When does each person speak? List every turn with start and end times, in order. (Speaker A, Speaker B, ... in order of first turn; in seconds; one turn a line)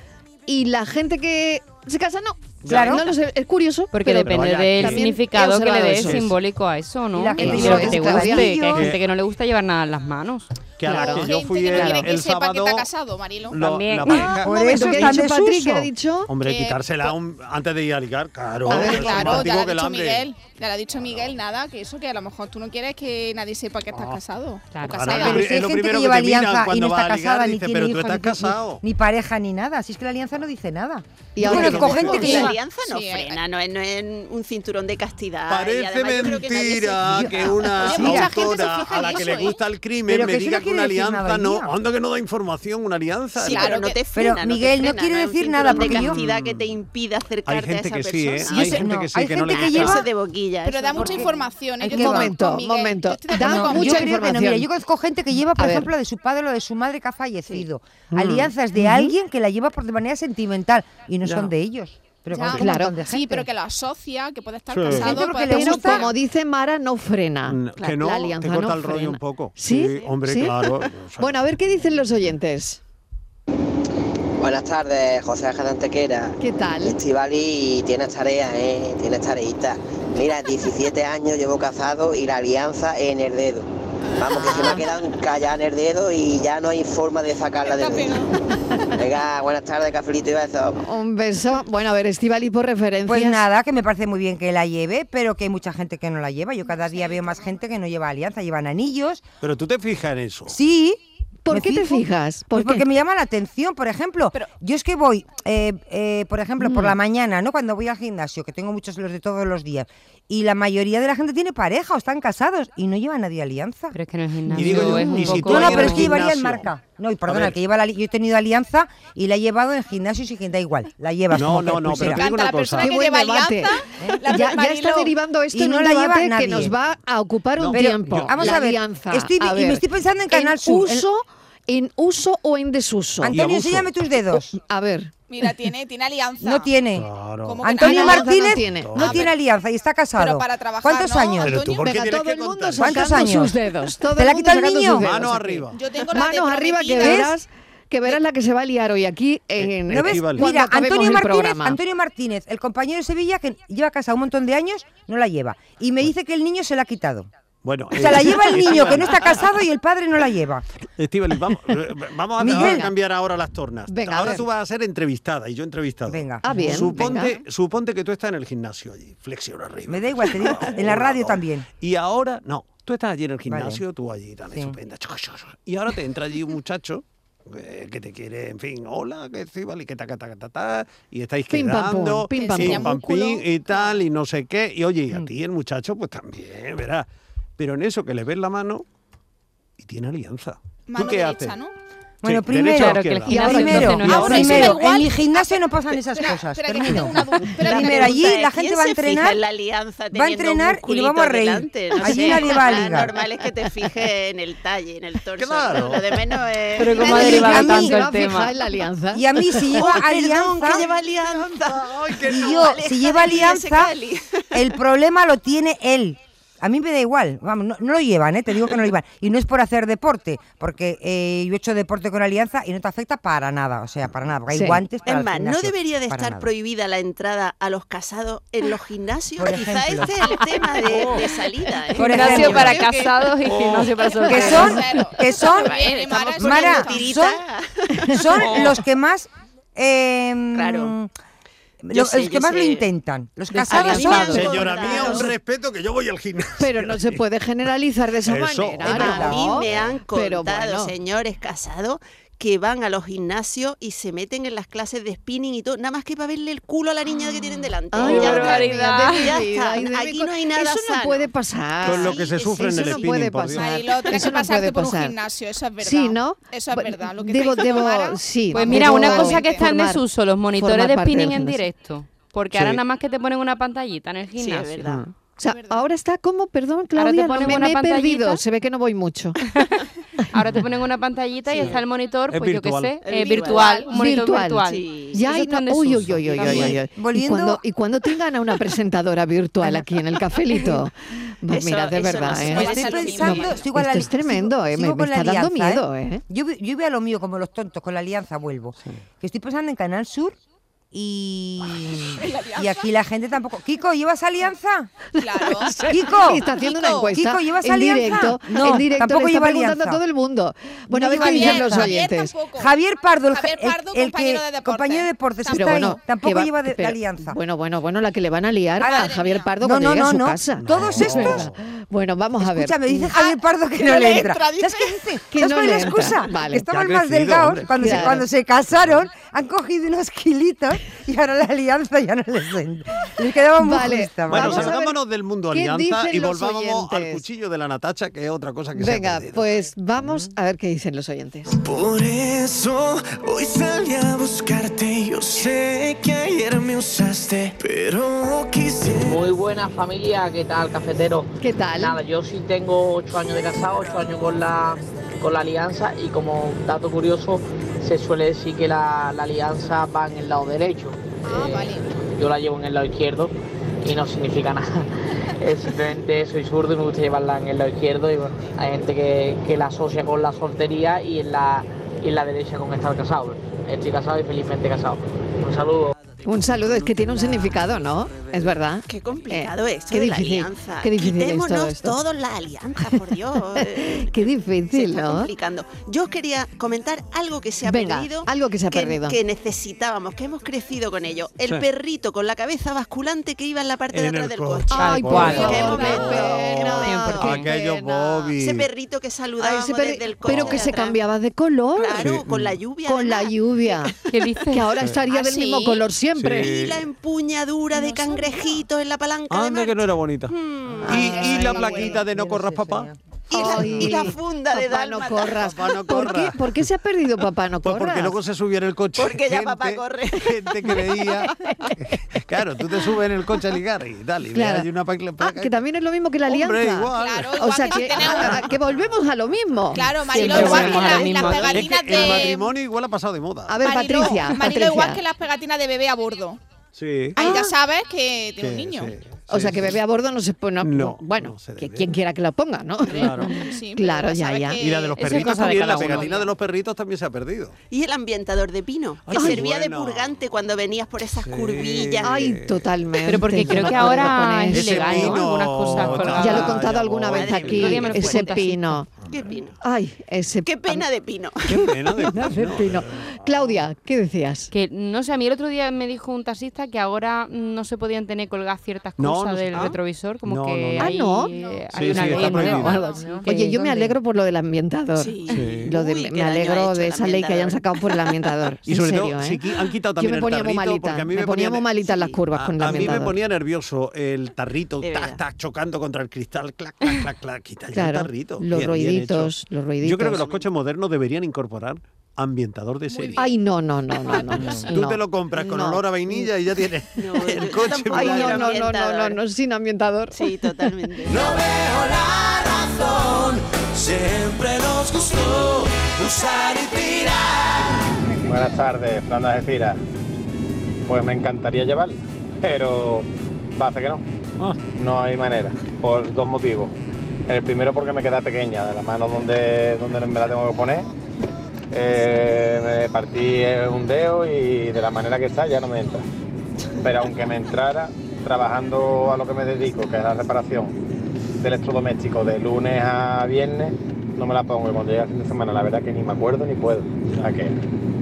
Speaker A: 0.5-6.3
Speaker B: 2.6-3.0
Speaker C: 2.7-3.0
Speaker D: 3.9-10.5
Speaker B: 4.2-5.3
Speaker B: 5.9-6.4
Speaker C: 7.1-8.9
Speaker A: 7.4-8.6
Speaker B: 7.4-9.0
Speaker B: 10.8-12.9
Speaker A: 10.8-12.1
Speaker E: 10.9-13.7
Speaker B: 13.5-15.2
Speaker D: 13.6-14.3
Speaker A: 14.1-16.3
Speaker C: 14.2-15.9
Speaker B: 16.3-20.3
Speaker E: 16.4-17.1
Speaker A: 18.7-19.4
Speaker E: 18.7-25.5
Speaker B: 23.9-24.2
Speaker D: 24.7-25.1
Speaker B: 24.8-28.8
Speaker C: 25.2-32.5
Speaker A: 31.4-32.5
Speaker B: 31.5-32.3
Speaker F: 31.6-38.1
Speaker E: 32.1-33.4
Speaker B: 35.5-43.7
Speaker C: 37.1-38.3
Speaker E: 37.7-39.6
Speaker C: 40.1-41.7
Speaker F: 43.4-48.9
Speaker E: 43.5-44.0
Speaker C: 44.1-46.2
Speaker B: 45.7-46.7
Speaker B: 47.5-50.0
Speaker E: 48.4-48.8
Speaker C: 48.6-50.0
Speaker F: 49.5-51.4
Speaker E: 50.6-54.2
Speaker C: 51.0-52.3
Speaker A: 51.9-54.7
Speaker C: 53.4-63.5
Speaker A: 55.6-55.9
Speaker B: 58.1-58.5
Speaker A: 58.8-59.1
Speaker B: 61.2-61.5
Speaker E: 62.3-66.1
Speaker A: 62.5-63.0
Speaker B: 64.7-65.2
Speaker C: 64.9-66.1
Speaker A: 65.3-70.6
Speaker B: 67.5-71.4
Speaker F: 69.7-70.1
Speaker A: 71.2-72.8
Speaker G: 74.4-88.2
Speaker A: 76.4-77.0
Speaker A: 84.3-84.9
Speaker E: 87.6-88.3
Speaker G: 89.0-90.8
Speaker A: 90.8-93.5
Speaker C: 93.1-99.2
Speaker B: 99.4-100.6
Speaker C: 100.5-101.0
Speaker A: 101.5-102.8
Speaker C: 101.5-113.9
Speaker A: 106.6-107.0
Speaker D: 113.9-116.1
Speaker B: 114.5-116.7
Speaker A: 114.5-115.4
Speaker C: 114.6-122.3
Speaker B: 117.3-117.6
Speaker B: 121.3-122.9
Speaker E: 122.0-125.1
Speaker A: 122.8-133.4
Speaker C: 125.5-126.8
Speaker B: 127.6-128.5
Speaker C: 127.7-131.1
Speaker B: 133.2-133.9
Speaker C: 133.3-134.5
Speaker A: 134.5-135.1
Speaker E: 135.3-136.8
Speaker C: 136.4-137.1
Speaker B: 136.9-137.7
Speaker E: 137.4-138.4
Speaker C: 137.6-141.6
Speaker A: 137.8-139.3
Speaker B: 138.6-139.2
Speaker E: 139.0-139.3
Speaker E: 140.2-141.9
Speaker B: 141.4-143.3
Speaker A: 141.7-151.8
Speaker C: 142.8-143.6
Speaker C: 144.2-145.1
Speaker B: 145.0-145.8
Speaker E: 145.7-147.3
Speaker C: 147.0-147.3
Speaker B: 149.6-150.5
Speaker C: 149.9-157.3
Speaker B: 157.6-159.4
Speaker C: 157.9-160.7
Speaker B: 161.0-188.8
Speaker C: 162.4-162.9
Speaker A: 162.4-162.9
Speaker A: 163.9-164.5
Speaker C: 166.1-167.2
Speaker A: 166.4-167.4
Speaker C: 169.9-171.7
Speaker C: 173.5-173.8
Speaker C: 174.5-174.8
Speaker A: 181.5-182.9
Speaker E: 182.3-184.0
Speaker B: 189.8-191.6
Speaker E: 190.9-191.7
Speaker C: 192.2-199.4
Speaker B: 192.2-194.6
Speaker D: 192.8-194.8
Speaker E: 194.1-198.4
Speaker F: 197.6-207.2
Speaker C: 200.1-203.1
Speaker B: 205.4-206.4
Speaker D: 206.8-208.5
Speaker A: 207.0-209.9
Speaker C: 207.0-208.1
Speaker C: 209.1-210.8
Speaker F: 209.7-214.8
Speaker B: 210.6-212.8
Speaker C: 212.3-213.9
Speaker C: 214.5-226.5
Speaker A: 224.5-224.8
Speaker F: 225.1-232.9
Speaker C: 229.4-230.2
Speaker B: 230.8-231.2
Speaker C: 231.9-232.9
Speaker D: 232.1-234.7
Speaker E: 232.8-233.2
Speaker B: 233.4-234.1
Speaker E: 233.9-237.2
Speaker C: 234.3-237.4
Speaker F: 235.3-238.7
Speaker C: 238.1-241.1
Speaker B: 238.3-238.8
Speaker F: 240.5-241.0
Speaker C: 241.8-244.6
Speaker F: 241.9-242.9
Speaker A: 243.5-245.3
Speaker F: 243.7-245.3
Speaker B: 244.0-247.2
Speaker A: 246.6-250.9
Speaker B: 248.3-249.9
Speaker C: 248.8-249.6
Speaker F: 248.9-261.3
Speaker A: 257.9-265.2
Speaker D: 258.0-259.3
Speaker F: 261.8-263.1
Speaker B: 261.8-263.7
Speaker E: 263.6-269.7
Speaker A: 265.8-270.0
Speaker D: 268.5-274.7
Speaker A: 270.6-271.6
Speaker B: 272.5-272.8
Speaker F: 274.3-275.0
Speaker A: 274.8-279.4
Speaker E: 275.5-275.9
Speaker D: 276.9-278.4
Speaker D: 280.3-286.8
Speaker F: 281.5-281.8
Speaker B: 281.6-283.5
Speaker F: 283.0-283.9
Speaker A: 283.4-296.2
Speaker F: 284.6-285.3
Speaker B: 285.9-286.8
Speaker C: 286.9-287.6
Speaker F: 291.5-293.7
Speaker E: 292.3-293.4
Speaker C: 292.5-300.4
Speaker C: 300.9-304.9
Speaker E: 302.2-302.9
Speaker A: 305.2-312.3
Speaker E: 305.2-305.8
Speaker C: 305.9-306.5
Speaker E: 306.5-307.2
Speaker C: 307.1-310.0
Speaker C: 310.9-312.0
Speaker E: 311.1-312.8
Speaker C: 312.6-317.4
Speaker E: 313.3-315.8
Speaker A: 315.5-323.1
Speaker E: 318.8-319.5
Speaker C: 319.6-321.5
Speaker B: 320.6-321.6
Speaker C: 322.4-334.8
Speaker E: 323.1-325.0
Speaker F: 323.8-324.2
Speaker A: 325.3-326.7
Speaker B: 326.7-328.2
Speaker A: 327.8-328.3
Speaker B: 328.7-329.0
Speaker A: 333.6-335.0
Speaker B: 334.3-339.5
Speaker A: 335.5-337.2
Speaker A: 338.8-341.6
Speaker C: 340.0-340.3
Speaker H: 341.7-349.1
Speaker I: 349.0-361.7
Speaker A: 351.4-352.0
Speaker E: 361.3-361.9
Speaker I: 362.2-364.9
Speaker I: 365.4-375.9
Speaker A: 376.2-382.0
Speaker F: 378.9-397.2
Speaker A: 383.6-385.3
Speaker A: 387.6-389.2
Speaker B: 393.9-398.7
Speaker A: 394.7-398.4
Speaker D: 394.8-395.6
Speaker D: 396.9-397.5
Speaker F: 398.4-401.0
Speaker A: 399.4-402.1
Speaker B: 400.2-400.7
Speaker F: 401.8-404.0
Speaker B: 401.9-402.6
Speaker A: 402.9-404.0
Speaker D: 404.1-404.9
Speaker A: 404.5-406.5
Speaker F: 405.1-409.8
Speaker B: 406.2-406.8
Speaker E: 407.8-408.6
Speaker B: 409.3-412.9
Speaker F: 410.3-411.9
Speaker C: 410.7-414.0
Speaker A: 410.9-411.7
Speaker F: 413.3-415.6
Speaker A: 413.3-418.2
Speaker B: 415.3-416.4
Speaker B: 417.6-425.6
Speaker F: 419.0-420.8
Speaker A: 424.3-430.8
Speaker B: 426.3-428.4
Speaker E: 426.9-428.5
Speaker E: 429.7-432.6
Speaker D: 430.1-431.7
Speaker B: 430.2-433.7
Speaker A: 433.5-435.0
Speaker E: 433.6-436.4
Speaker B: 436.8-437.4
Speaker E: 437.1-439.0
Speaker A: 437.2-437.5
Speaker B: 438.4-439.8
Speaker A: 439.3-444.6
Speaker B: 440.6-441.9
Speaker B: 442.9-443.3
Speaker E: 442.9-445.2
Speaker B: 444.6-447.6
Speaker D: 445.0-446.2
Speaker F: 447.7-452.2
Speaker B: 449.1-450.1
Speaker A: 449.1-449.4
Speaker B: 451.2-452.6
Speaker A: 452.0-458.9
Speaker D: 453.1-456.5
Speaker B: 453.2-458.1
Speaker F: 457.1-458.5
Speaker D: 457.6-458.8
Speaker F: 459.0-459.6
Speaker A: 459.6-460.9
Speaker F: 460.4-461.7
Speaker B: 461.5-463.6
Speaker A: 462.0-464.5
Speaker D: 464.5-473.6
Speaker B: 469.0-470.9
Speaker A: 470.8-471.3
Speaker E: 471.3-473.3
Speaker B: 471.7-472.9
Speaker A: 472.0-472.7
Speaker A: 473.2-483.2
Speaker C: 473.6-473.8
Speaker F: 475.0-478.2
Speaker B: 475.3-475.7
Speaker B: 478.7-481.8
Speaker F: 481.8-482.2
Speaker B: 482.3-493.2
Speaker F: 484.8-485.2
Speaker A: 487.7-490.2
Speaker E: 492.9-493.3
Speaker A: 493.2-496.3
Speaker B: 494.5-498.6
Speaker F: 497.0-499.2
Speaker A: 497.9-500.3
Speaker F: 500.1-501.4
Speaker H: 501.1-507.4
Speaker J: 508.2-509.8
Speaker J: 510.9-514.0
Speaker J: 514.7-516.7
Speaker J: 517.3-520.9
Speaker J: 521.7-526.1
Speaker J: 526.8-530.7
Speaker J: 531.4-537.5
Speaker B: 537.1-537.3